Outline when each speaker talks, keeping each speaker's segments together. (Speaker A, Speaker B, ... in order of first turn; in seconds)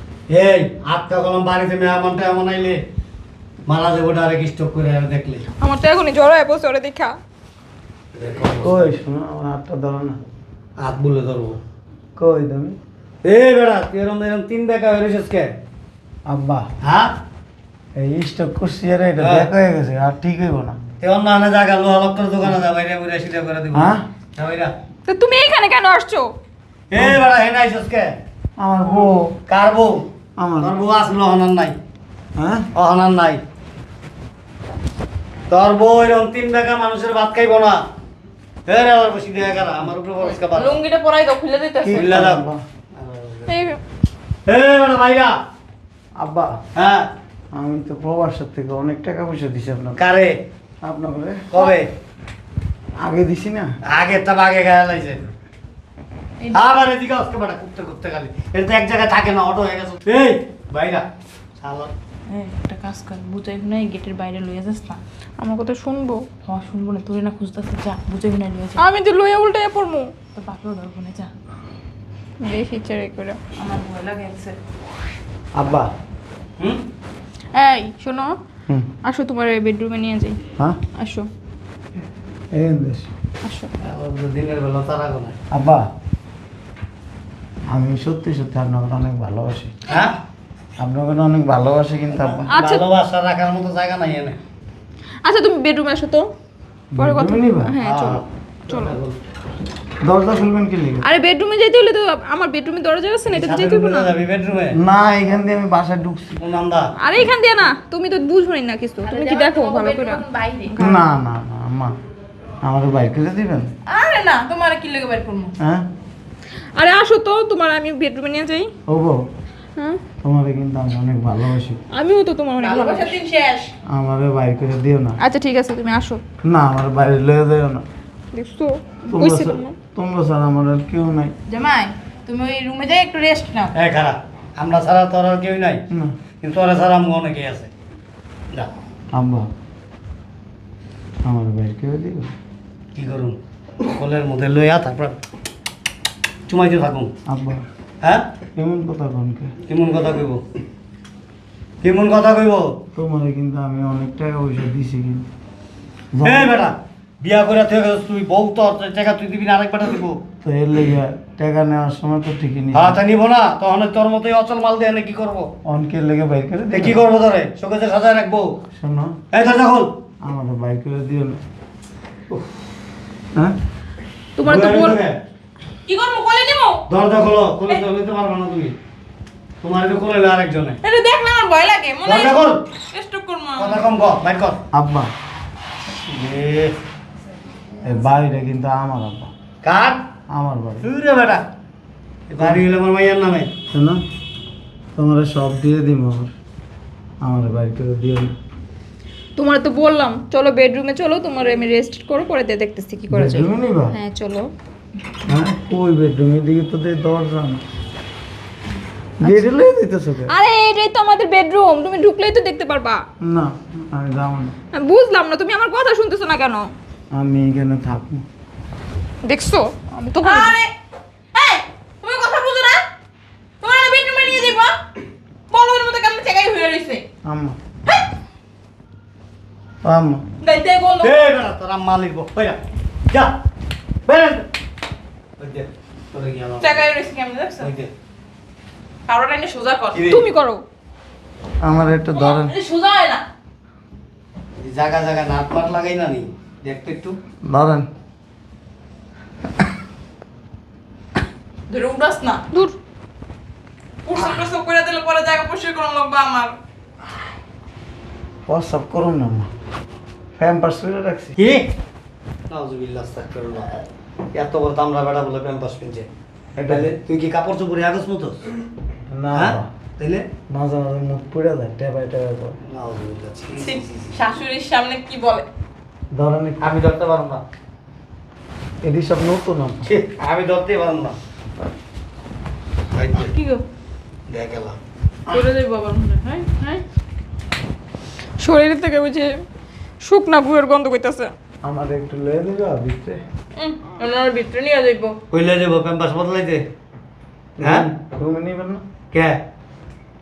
Speaker A: 0.3-2.8, 3.7-5.5, 8.1-8.9, 10.8-11.6, 13.2-15.6, 16.8-17.1, 19.2-19.5, 21.0-24.7, 26.9-28.1, 29.5-30.1, 30.6-31.8, 32.7-33.4, 35.5-37.9, 38.7-40.8, 41.9-42.4, 43.0-43.7, 44.5-45.4, 46.8-47.1, 50.0-50.4, 51.5-51.9, 53.9-55.3, 56.5-61.1, 61.6-61.9, 83.8-85.4, 89.9-90.2, 92.2-94.4, 97.8-99.2, 103.3-104.8, 106.4-106.9, 133.7-135.8, 136.4-137.7, 142.9-145.2, 146.5-147.1, 148.0-148.3, 149.7-150.4, 151.8-152.8, 156.2-160.2, 162.7-165.5, 166.7-168.6, 169.3-169.9, 174.4-175.2, 176.9-178.8, 179.6-180.8, 182.1-182.6, 183.6-184.6, 186.1-186.8, 189.6-190.0, 190.8-191.4, 192.3-193.5, 231.0-233.3, 234.1-234.5, 235.4-236.8, 237.6-237.9, 239.9-240.2, 244.6-247.2, 261.4-261.6, 262.5-263.8, 264.3-266.1, 266.6-268.4, 269.3-270.3, 272.6-274.2, 276.6-277.4, 279.9-281.2, 282.9-283.3, 284.3-284.8, 295.3-296.6, 297.6-297.9, 299.1-299.4
Speaker B: 5.6-7.2, 25.1-26.3, 43.5-43.8, 65.4-66.2, 68.8-70.1, 72.4-73.4, 77.5-78.4, 79.0-80.4, 81.0-81.3, 83.4-83.7, 92.5-92.8, 95.2-96.3, 97.0-99.0, 101.0-104.1, 107.0-111.0, 116.8-118.7, 119.8-120.0, 121.9-123.2, 125.2-126.2, 128.3-129.8, 174.4-175.0, 199.4-204.5, 209.2-209.5, 210.3-213.0, 214.7-216.7, 219.2-220.5, 240.0-240.6, 252.5-252.8, 288.4-289.3, 290.0-291.3
Speaker C: 8.6-10.2, 12.2-12.8, 16.3-16.7, 18.0-20.8, 23.7-24.0, 28.6-29.3, 30.4-30.8, 32.4-32.7, 41.8-42.6, 46.2-46.6, 47.5-50.0, 50.8-51.5, 53.0-53.7, 75.6-75.9, 82.5-83.1, 85.5-85.9, 87.7-89.7, 90.8-92.5, 96.9-97.8, 100.0-101.1, 104.8-106.4, 110.8-112.0, 112.6-113.7, 115.6-115.8, 118.9-119.2, 120.2-121.8, 123.9-125.2, 126.5-127.8, 129.1-131.3, 139.1-139.5, 141.2-142.3, 147.3-147.7, 148.6-149.5, 152.9-155.3, 156.1-156.6, 160.4-163.0, 165.7-167.0, 168.8-169.2, 170.2-171.4, 184.7-185.1, 187.8-189.3, 190.3-190.9, 192.4-192.7, 193.7-194.0, 195.0-196.3, 197.2-198.3, 203.1-204.0, 205.3-207.6, 209.2-210.3, 213.2-214.6, 217.1-218.3, 227.2-227.6, 229.8-230.2, 241.6-242.6, 247.4-247.9, 258.5-259.5, 260.4-261.4, 266.6-266.9, 269.1-269.7, 270.5-272.6, 276.1-276.7, 278.8-279.9, 291.6-293.2, 297.6-298.8
Speaker D: 40.4-42.1, 56.4-56.7, 62.3-65.0, 66.5-68.8, 70.3-71.3, 73.6-74.6, 109.1-110.7, 113.9-115.5, 122.6-123.7, 131.5-133.7, 175.9-176.8, 180.8-183.8, 220.2-220.7, 221.3-222.8, 223.6-224.8, 225.5-227.1, 230.4-231.3, 236.6-237.7, 239.1-240.0, 242.0-243.2, 251.7-252.4, 254.1-256.6, 273.6-275.5, 283.2-283.6, 285.3-286.8, 293.6-295.2